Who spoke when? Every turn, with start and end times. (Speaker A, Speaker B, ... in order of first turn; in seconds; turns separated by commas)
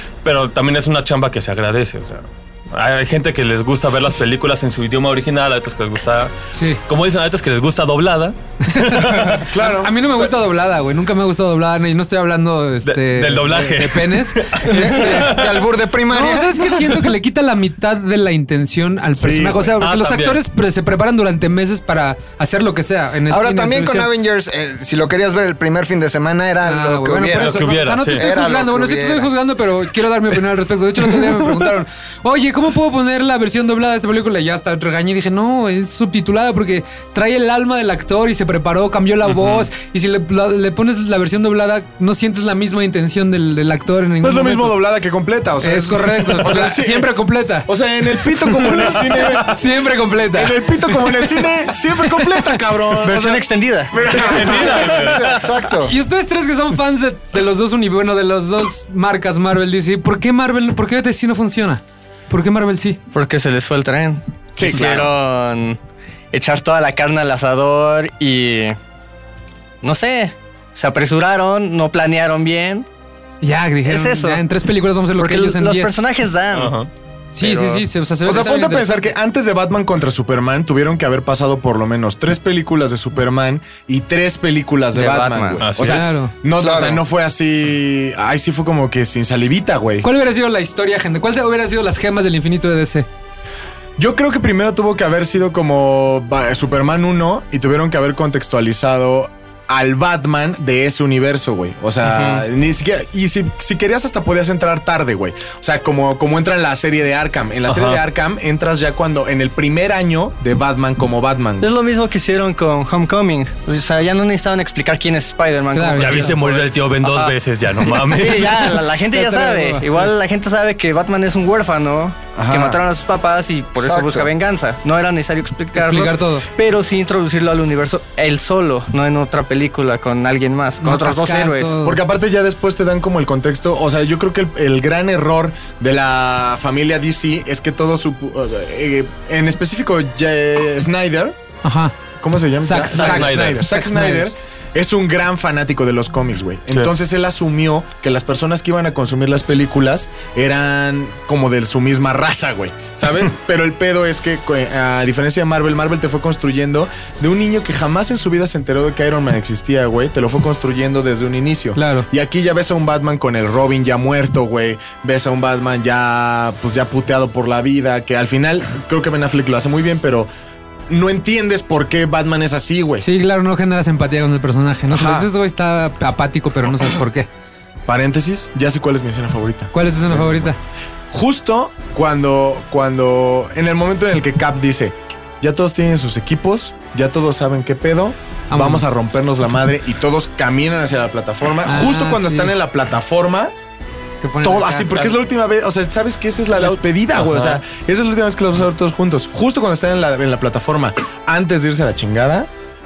Speaker A: 0.2-6.3, Speaker B: 6.5-6.8, Speaker A: 6.8-9.4, Speaker B: 8.6-15.4, Speaker C: 9.4-10.3, Speaker A: 12.8-15.7, Speaker D: 14.6-16.8, Speaker B: 16.1-24.1, Speaker C: 19.2-19.7, Speaker A: 19.8-20.4, Speaker D: 23.3-29.3, Speaker B: 26.6-44.8, Speaker A: 27.4-28.2, Speaker A: 39.2-39.7, Speaker C: 44.2-49.7, Speaker B: 45.6-51.4, Speaker C: 50.3-55.2, Speaker B: 52.1-52.4, Speaker E: 53.0-55.4, Speaker D: 54.3-55.9, Speaker A: 54.4-55.0, Speaker B: 55.8-63.0, Speaker E: 63.1-65.8, Speaker C: 64.6-65.0, Speaker A: 64.7-65.0, Speaker E: 66.3-68.8, Speaker E: 69.8-72.8, Speaker B: 73.4-76.0, Speaker E: 73.8-74.4, Speaker E: 75.2-76.8, Speaker A: 76.5-76.9, Speaker B: 77.3-79.1, Speaker E: 77.4-77.8, Speaker C: 78.2-90.1, Speaker E: 84.9-85.8, Speaker A: 85.6-86.1, Speaker B: 85.8-86.3, Speaker D: 86.6-87.0, Speaker B: 90.0-93.1, Speaker C: 94.0-111.7, Speaker E: 102.0-102.4, Speaker A: 107.7-108.0, Speaker E: 111.6-117.3, Speaker B: 115.7-116.4, Speaker A: 116.0-118.8, Speaker E: 117.9-131.8, Speaker B: 119.1-120.1, Speaker C: 122.3-122.8, Speaker D: 123.8-124.3, Speaker B: 125.7-126.5, Speaker B: 130.8-132.0, Speaker C: 131.8-141.3, Speaker B: 141.6-141.9, Speaker C: 142.2-170.3, Speaker B: 142.6-144.3, Speaker A: 142.9-143.6, Speaker B: 161.8-162.1, Speaker C: 170.9-173.0, Speaker B: 173.0-177.3, Speaker C: 174.9-175.3, Speaker C: 177.9-180.5, Speaker B: 179.7-180.6, Speaker C: 181.1-193.5, Speaker B: 188.5-189.0, Speaker B: 191.6-192.5, Speaker B: 194.2-195.1, Speaker C: 194.4-202.5, Speaker A: 196.6-197.6